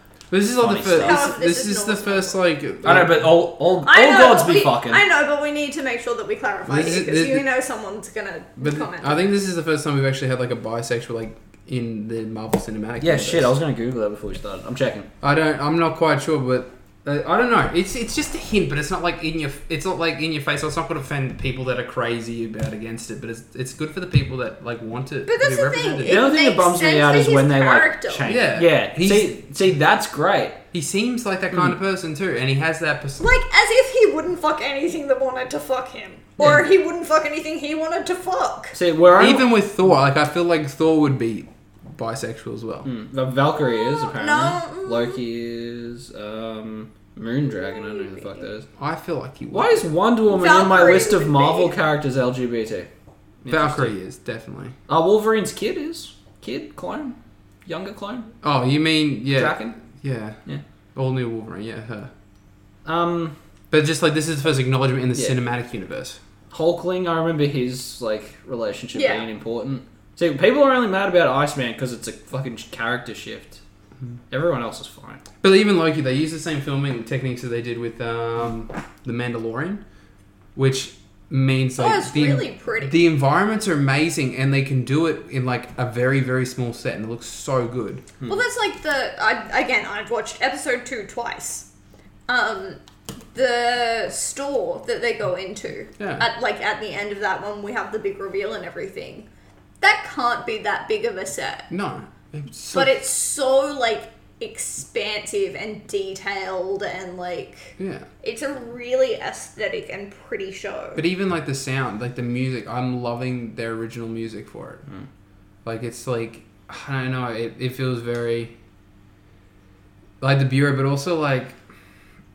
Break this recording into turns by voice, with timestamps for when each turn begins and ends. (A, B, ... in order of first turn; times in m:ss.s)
0:00.3-0:03.4 A
0:00.6-0:01.3 B
0:01.0-0:02.4 C
0:02.8-0:05.0 B
0:03.8-0:09.3 C
0:06.7-0:07.5 A
0:08.6-0:13.5 A
0:13.0-0:15.1 B
0:15.2-0:26.3 A
0:25.3-0:28.3 C
0:26.0-0:30.6 B
0:28.3-0:29.4 A
0:30.7-0:33.2 A
0:33.2-0:38.8 C
0:38.7-0:39.5 B
0:39.2-0:42.9 A
0:42.8-0:48.7 B
0:43.6-0:45.2 C
0:47.6-0:48.4 C
0:48.8-0:49.9 A
0:49.5-0:52.9 B
0:50.3-0:51.8 C
0:53.4-0:53.9 B
0:53.5-0:54.8 A
0:54.9-0:58.3 B
0:58.4-1:00.4 A
0:59.4-0:59.8 B
1:01.0-1:02.1 A
1:02.8-1:03.4 B
1:03.7-1:06.2 A
1:06.5-1:13.6 B
1:08.9-1:09.2 C
1:14.3-1:15.2 B
1:15.4-1:19.8 A
1:20.6-1:28.1 A
1:21.8-1:23.0 C
1:28.3-1:31.7 C
1:32.3-1:32.8 C
1:33.3-1:39.3 C
1:36.0-1:36.3 A
1:39.8-1:41.7 C
1:41.7-1:43.0 A
1:42.7-1:51.0 C
1:47.8-1:48.1 A
1:51.0-1:54.8 A
1:55.6-1:58.5 A
2:00.2-2:01.6 A